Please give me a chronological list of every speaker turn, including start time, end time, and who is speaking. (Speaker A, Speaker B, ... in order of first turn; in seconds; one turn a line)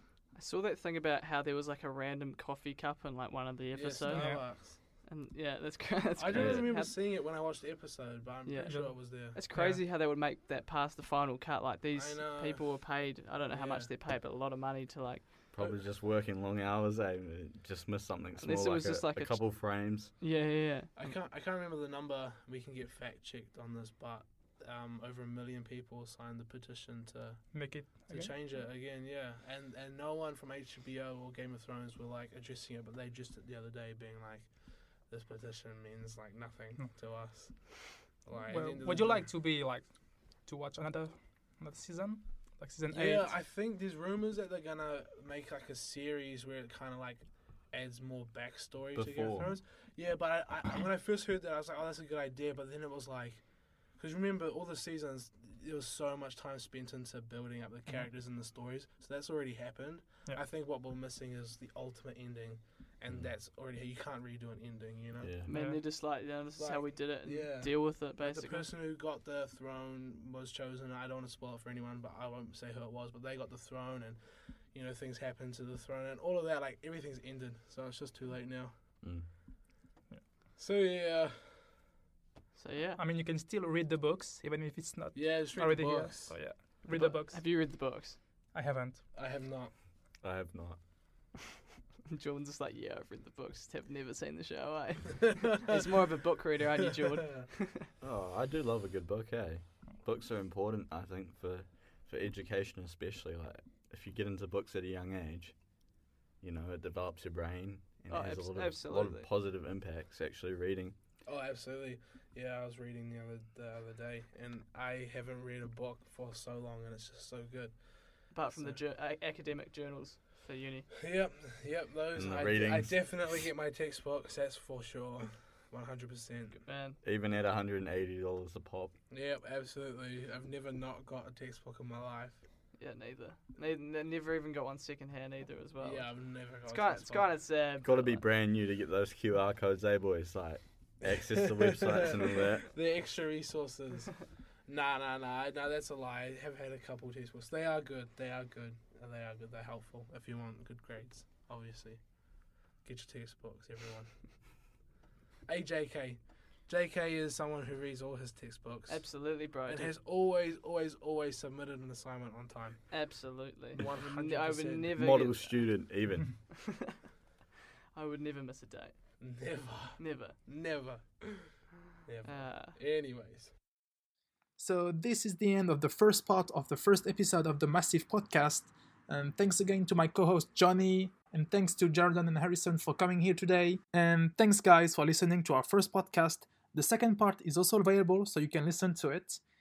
Speaker A: 0.3-6.9
Speaker B: 3.7-4.8
Speaker C: 4.1-4.5
Speaker B: 6.2-9.4
Speaker D: 6.3-6.6
Speaker A: 8.4-15.3
Speaker C: 8.7-9.0
Speaker C: 9.5-9.8
Speaker B: 11.9-12.8
Speaker B: 13.5-13.9
Speaker D: 15.5-20.1
Speaker A: 18.4-21.1
Speaker B: 20.9-39.3
Speaker C: 27.5-28.4
Speaker C: 38.5-43.4
Speaker B: 42.9-65.4
Speaker D: 48.9-49.5
Speaker D: 65.2-65.5
Speaker A: 65.5-68.7
Speaker C: 65.5-65.8
Speaker B: 66.6-78.7
Speaker D: 79.0-79.3
Speaker B: 80.6-81.6
Speaker A: 82.5-83.0
Speaker C: 83.0-87.9
Speaker B: 85.1-86.5
Speaker A: 86.8-88.2
Speaker C: 88.5-89.1
Speaker B: 89.1-89.7
Speaker D: 90.2-90.8
Speaker A: 92.1-97.8
Speaker B: 95.5-96.2
Speaker B: 97.2-97.5
Speaker D: 98.0-105.5
Speaker D: 106.4-110.9
Speaker A: 108.1-109.3
Speaker B: 111.2-118.8
Speaker A: 118.3-120.9
Speaker B: 121.0-126.6
Speaker D: 122.1-123.3
Speaker A: 126.6-127.0
Speaker D: 127.0-128.9
Speaker B: 129.1-132.4
Speaker A: 132.8-136.1
Speaker B: 135.8-137.3
Speaker A: 136.7-138.2
Speaker D: 137.8-142.8
Speaker B: 141.1-152.2
Speaker B: 152.8-154.2
Speaker B: 155.5-163.0
Speaker A: 158.9-159.9
Speaker A: 162.9-165.9
Speaker B: 163.8-165.0
Speaker D: 164.9-166.4
Speaker A: 166.5-167.0
Speaker A: 167.9-169.2
Speaker B: 169.2-173.5
Speaker A: 170.0-170.3
Speaker A: 172.2-172.7
Speaker E: 174.6-189.4